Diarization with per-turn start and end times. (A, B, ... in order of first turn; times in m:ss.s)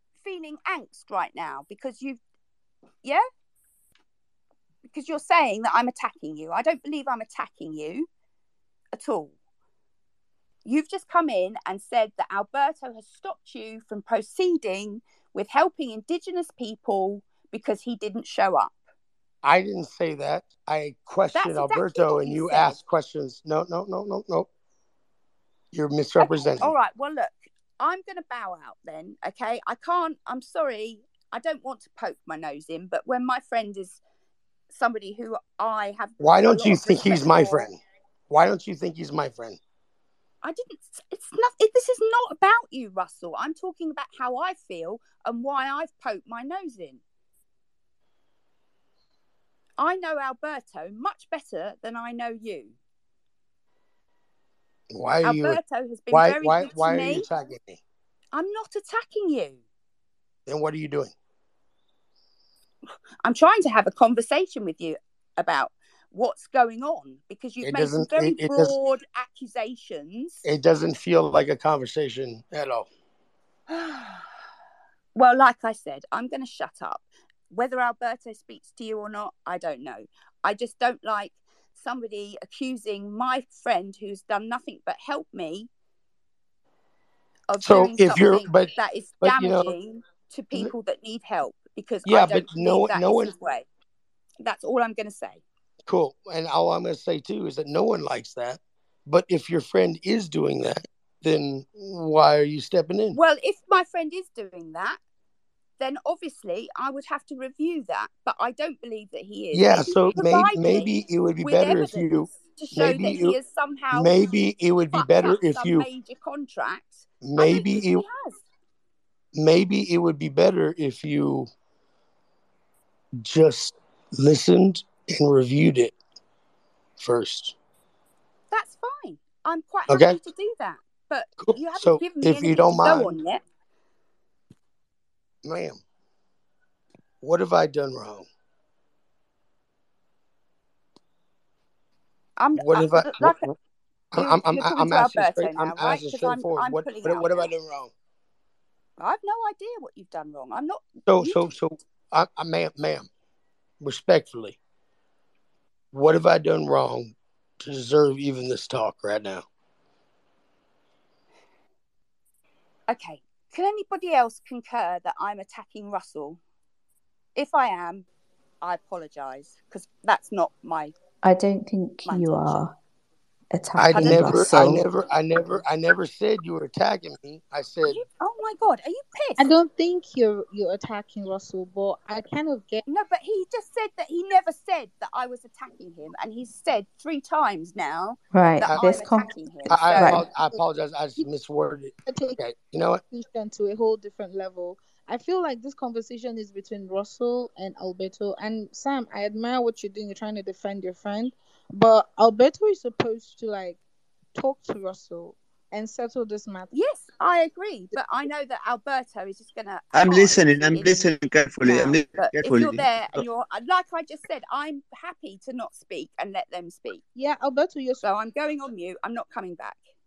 0:00.2-0:02.2 A
0:04.9-0:08.1 A
0:08.9-0:09.3 A
0:10.6-0:18.8 A
0:19.4-0:24.5 B
0:21.4-0:22.8 A
0:25.7-0:26.7 B
0:26.2-0:34.0 A
0:34.7-0:37.6 A
0:36.2-0:37.8 B
0:38.3-0:39.6 B
0:40.4-0:47.0 A
0:49.8-0:52.8 A
0:54.9-0:55.6 B
0:55.2-0:57.3 A
0:56.1-0:57.8 B
0:58.3-0:59.6 A
1:00.5-1:01.1 B
1:03.2-1:10.4 A
1:07.6-1:08.7 B
1:10.4-1:12.9 B
1:13.7-1:14.3 A
1:15.2-1:25.7 A
1:27.5-1:33.7 A
1:27.6-1:29.8 B
1:32.1-1:33.3 B
1:34.4-1:35.4 A
1:35.9-1:43.2 B
1:43.2-1:45.0 A
1:45.8-1:50.9 A
1:49.5-1:53.4 B
1:51.4-1:54.2 A
1:53.9-1:55.9 B
1:54.9-1:58.4 A
1:57.2-1:58.0 B
1:59.4-2:01.5 B
2:03.2-2:06.0 B
2:07.0-2:07.6 B
2:08.5-2:13.4 A
2:09.9-2:10.2 B
2:11.4-2:13.2 B
2:15.4-2:15.8 B
2:17.2-2:18.3 B
2:22.4-2:23.4 A
2:22.6-2:23.5 B
2:24.1-2:27.9 B
2:24.2-2:27.5 A
2:29.0-2:31.4 A
2:31.1-2:33.1 B
2:33.8-2:34.6 B
2:35.9-2:39.4 B
2:42.9-2:46.4 A
2:47.4-2:48.1 A
2:48.6-2:50.9 A
2:51.2-2:52.8 C
2:52.1-2:52.6 A
2:53.5-2:54.9 C
2:53.8-2:58.0 B
2:53.9-2:55.0 A
2:57.9-2:59.6 A
2:59.4-3:02.8 D
3:02.9-3:10.2 A
3:08.3-3:10.3 C
3:08.6-3:08.9 B
3:09.7-3:13.0 B
3:12.1-3:12.4 D
3:13.1-3:23.8 D
3:24.4-3:26.7 D
3:26.7-3:31.0 A
3:29.9-3:33.2 E
3:31.6-3:37.0 A
3:37.2-3:38.0 D
3:38.0-3:39.8 A